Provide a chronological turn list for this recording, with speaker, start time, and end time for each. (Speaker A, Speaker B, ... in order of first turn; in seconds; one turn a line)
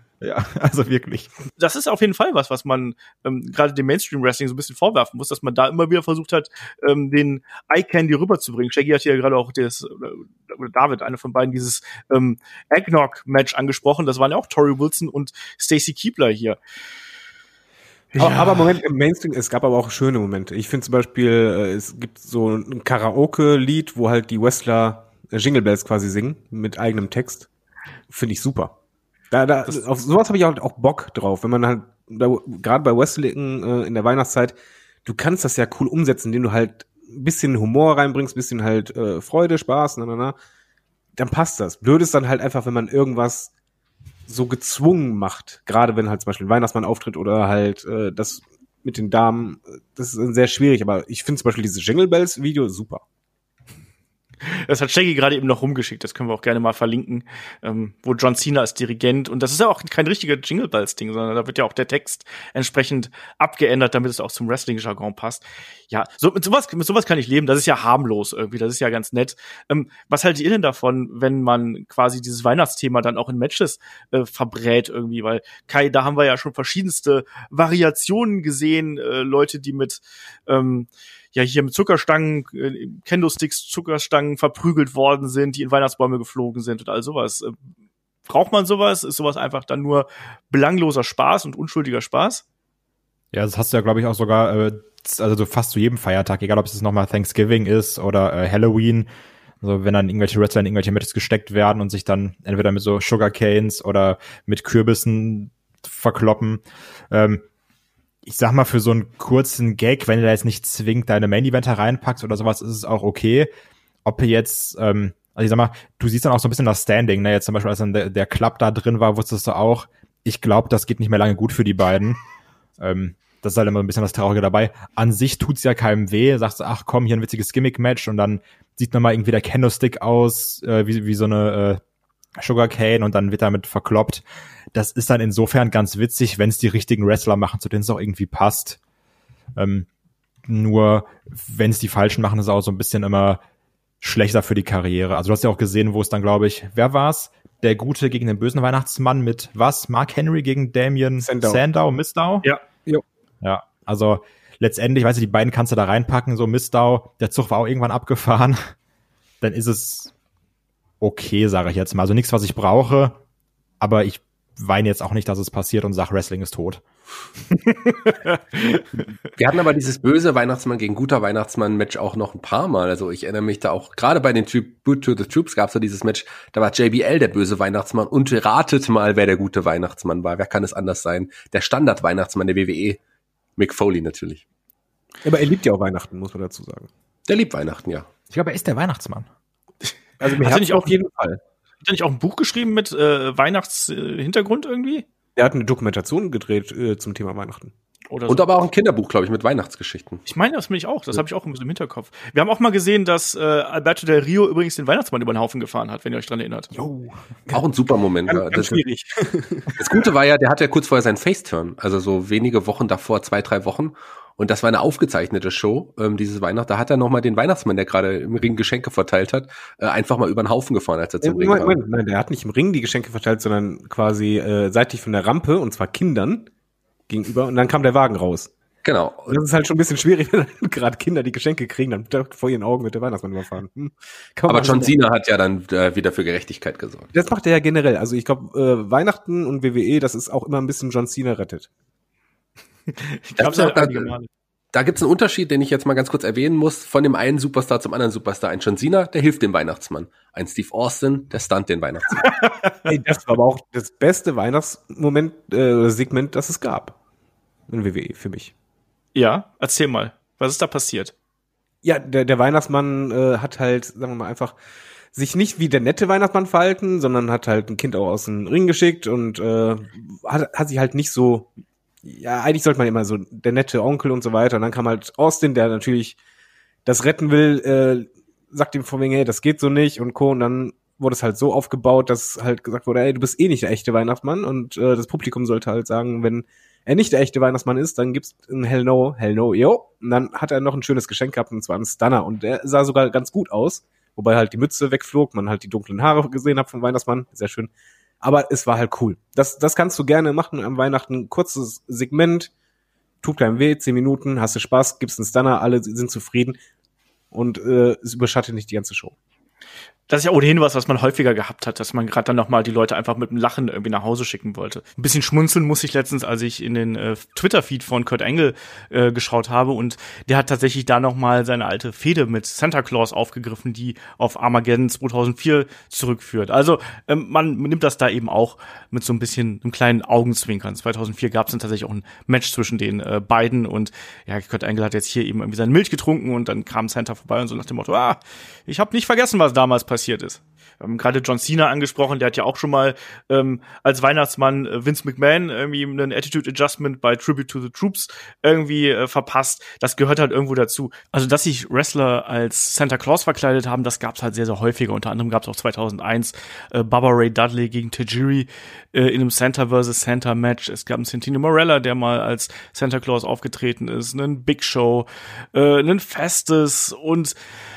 Speaker A: 0.2-1.3
Speaker B: 1.6-16.6
Speaker B: 18.1-18.6
Speaker C: 18.2-27.5
Speaker C: 28.1-28.8
Speaker C: 29.3-40.4
Speaker C: 41.1-43.5
Speaker C: 44.3-53.0
Speaker B: 54.4-87.5
Speaker B: 88.3-92.4
Speaker A: 93.3-99.1
Speaker A: 99.6-107.4
Speaker A: 108.2-113.5
Speaker A: 114.0-122.2
Speaker A: 122.8-131.8
Speaker A: 132.4-138.8
Speaker A: 139.6-139.9
Speaker A: 140.4-143.4
Speaker A: 144.0-152.5
Speaker C: 151.2-151.6
Speaker A: 153.4-158.7
Speaker A: 159.4-160.1
Speaker A: 161.0-163.2
Speaker A: 163.8-166.8
Speaker B: 167.7-169.0
Speaker D: 169.3-183.0
Speaker D: 183.6-184.4
Speaker C: 185.2-186.9
Speaker D: 187.3-188.1
Speaker A: 188.3-189.3
Speaker C: 190.2-191.4
Speaker B: 190.3-190.9
Speaker B: 191.8-195.1
Speaker C: 195.3-197.7
Speaker B: 198.1-198.4
Speaker D: 198.3-200.2
Speaker B: 200.2-206.7
Speaker A: 206.7-207.2
Speaker D: 207.5-208.8
Speaker C: 208.2-209.8
Speaker D: 209.8-221.8
Speaker C: 221.2-226.5
Speaker C: 227.1-228.5
Speaker D: 228.8-229.4
Speaker C: 229.3-234.9
Speaker D: 234.5-237.1
Speaker C: 237.1-241.7
Speaker B: 242.9-244.3
Speaker D: 243.4-244.1
Speaker D: 244.7-252.3
Speaker B: 252.2-252.7
Speaker C: 252.8-256.9
Speaker C: 257.7-258.5
Speaker B: 259.1-261.1
Speaker C: 261.8-264.6
Speaker C: 265.1-271.5
Speaker C: 272.0-276.2
Speaker C: 276.8-302.5
Speaker C: 303.2-306.6
Speaker C: 307.3-309.1
Speaker B: 310.1-367.3